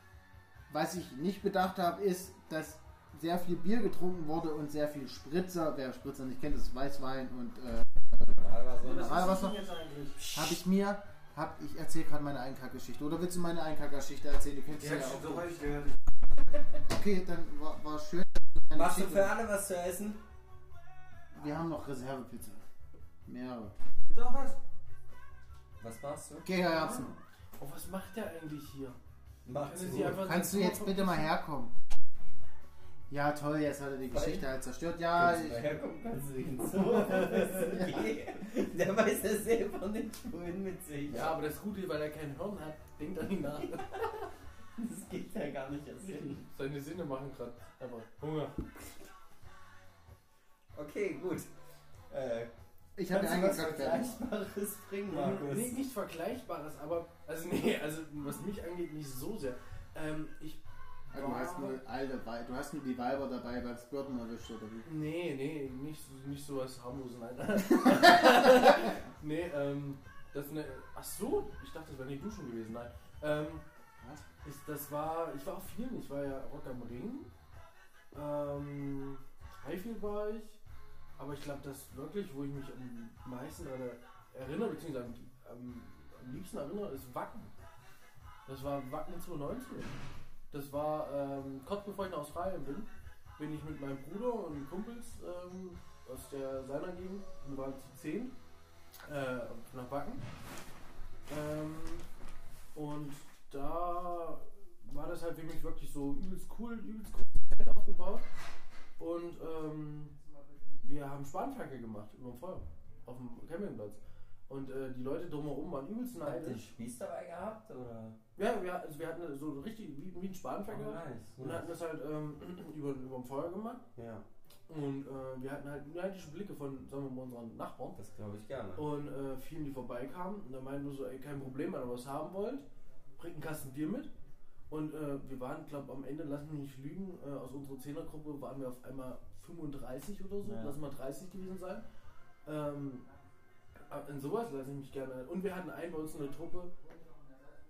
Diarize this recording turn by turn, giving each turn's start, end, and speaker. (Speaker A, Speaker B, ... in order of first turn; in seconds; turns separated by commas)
Speaker A: 0.7-9.6, Speaker B: 8.4-9.4, Speaker C: 8.8-10.2, Speaker B: 10.2-10.6, Speaker A: 10.3-15.4, Speaker C: 14.8-15.9, Speaker B: 15.0-15.4, Speaker A: 16.9-19.4, Speaker B: 18.7-20.2, Speaker A: 21.3-22.6, Speaker A: 23.3-23.7, Speaker C: 24.1-24.6, Speaker B: 25.8-26.5, Speaker A: 26.4-27.2, Speaker D: 27.6-29.0, Speaker B: 29.4-30.3, Speaker D: 29.7-31.3, Speaker A: 29.9-31.7, Speaker A: 33.1-35.7, Speaker B: 34.1-34.5, Speaker B: 35.1-41.4, Speaker A: 37.3-38.0, Speaker D: 41.1-44.1, Speaker B: 43.6-44.1, Speaker B: 44.8-46.5, Speaker D: 46.4-48.6, Speaker B: 50.8-51.5, Speaker B: 52.1-52.5, Speaker A: 53.0-54.2, Speaker B: 53.1-55.8, Speaker D: 55.1-60.6, Speaker A: 61.1-64.9, Speaker D: 61.1-61.8, Speaker D: 64.8-73.6, Speaker A: 67.8-68.9, Speaker A: 74.0-74.2, Speaker D: 74.4-77.3, Speaker D: 78.1-80.6, Speaker D: 81.2-87.5, Speaker D: 88.5-90.0, Speaker D: 90.5-98.3, Speaker D: 99.1-100.2, Speaker D: 101.3-102.1, Speaker D: 102.8-108.2, Speaker D: 109.0-110.2, Speaker D: 110.8-116.6, Speaker B: 116.2-118.2, Speaker D: 118.4-123.8, Speaker B: 120.7-121.7, Speaker B: 124.0-124.2, Speaker D: 124.7-128.0, Speaker B: 128.0-128.8, Speaker D: 128.8-132.7, Speaker D: 133.2-134.1, Speaker D: 134.7-141.8, Speaker C: 140.4-140.8, Speaker D: 142.4-143.1, Speaker D: 143.9-146.7